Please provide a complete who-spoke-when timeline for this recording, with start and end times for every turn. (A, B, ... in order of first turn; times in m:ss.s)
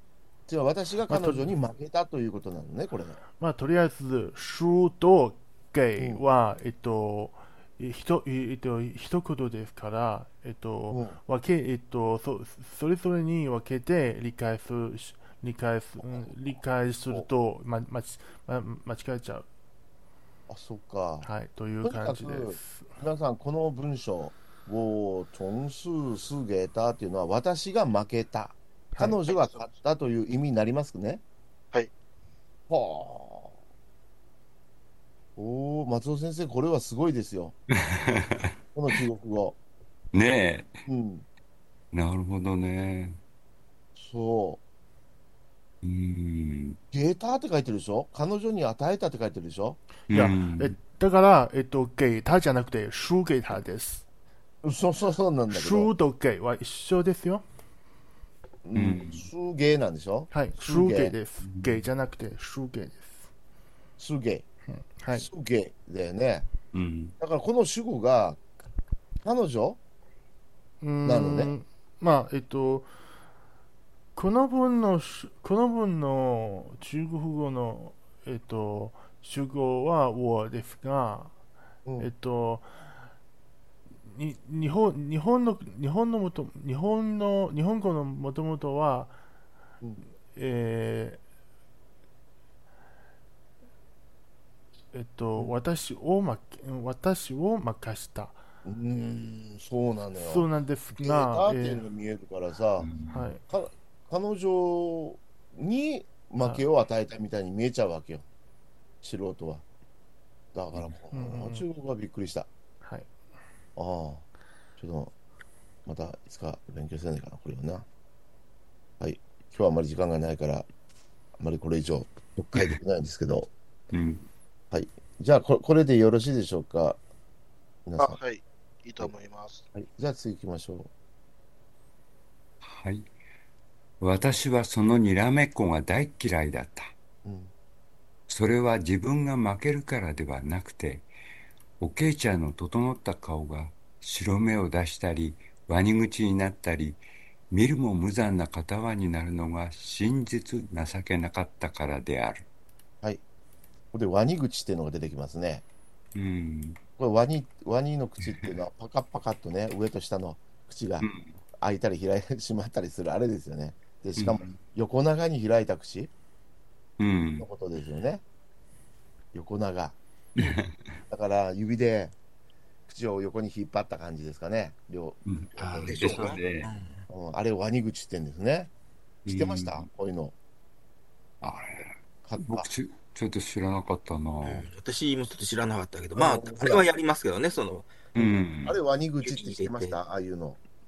0:00.5-0:03.2 A
0:01.1-0:01.6 B
0:03.4-0:19.5 B
0:10.9-0:11.2 A
0:16.0-0:16.3 A
0:20.5-0:21.3 A
0:21.2-0:22.9 B
0:21.8-0:31.2 A
0:28.9-0:29.2 B
0:29.4-0:29.7 C
0:32.7-0:33.5 A
0:35.4-0:37.6 A
0:37.8-0:38.5 D
0:38.8-0:39.6 A
0:40.1-0:40.8 D
0:40.9-0:41.3 A
0:41.9-0:43.2 D
0:44.0-0:44.6 A
0:45.8-0:46.8 D
0:46.9-0:49.8 A
0:50.1-0:54.0 B
0:50.1-0:50.8 D
0:54.6-0:55.9 A
0:55.5-0:57.4 B
0:58.6-1:01.2 A
0:58.8-0:59.3 D
1:00.3-1:03.3 B
1:01.4-1:01.9 D
1:04.0-1:04.5 A
1:04.7-1:05.3 B
1:05.1-1:06.5 A
1:06.7-1:07.2 D
1:07.2-1:08.4 A
1:09.2-1:09.8 A
1:10.8-1:12.9 B
1:11.0-1:11.5 A
1:14.2-1:21.4 B
1:21.8-1:22.1 A
1:22.0-1:23.1 B
1:24.0-1:29.2 B
1:30.3-1:31.2 B
1:34.9-1:38.4 B
1:38.6-1:42.9 A
1:40.2-1:41.8 B
1:42.8-1:43.3 D
1:43.1-1:43.4 B
1:43.5-1:48.2 A
1:49.0-1:49.6 A
1:50.5-1:52.5 A
1:51.1-1:51.7 B
1:52.8-1:53.1 B
1:53.8-1:54.2 A
1:54.8-1:55.1 A
1:55.9-1:57.9 A
1:59.0-2:00.7 A
2:01.4-2:03.5 A
2:03.9-2:04.3 D
2:04.7-2:07.0 A
2:07.9-2:08.2 A
2:08.0-2:09.6 C
2:09.7-2:10.9 A
2:12.6-2:13.1 D
2:14.0-2:16.9 D
2:17.2-2:17.5 A
2:18.3-2:21.1 D
2:21.8-2:27.0 D
2:27.5-2:32.5 D
2:33.9-2:35.6 A
2:36.2-2:36.8 D
2:37.0-2:41.1 A
2:41.0-2:41.3 D
2:41.6-2:46.1 A
2:44.2-2:44.6 D
2:47.0-2:47.5 D
2:47.4-2:48.2 A
2:49.3-2:50.0 A
2:50.4-2:50.7 D
2:51.1-2:52.2 A
2:52.9-2:56.4 A
2:55.3-2:56.7 D
2:55.6-2:57.0 E
2:57.1-2:58.7 A
2:59.2-2:59.9 D
2:59.3-3:00.4 A
3:01.4-3:04.7 D
3:02.2-3:02.7 A
3:04.4-3:08.4 E
3:06.2-3:06.9 A
3:08.2-3:08.8 D
3:08.6-3:10.6 A
3:09.2-3:10.0 E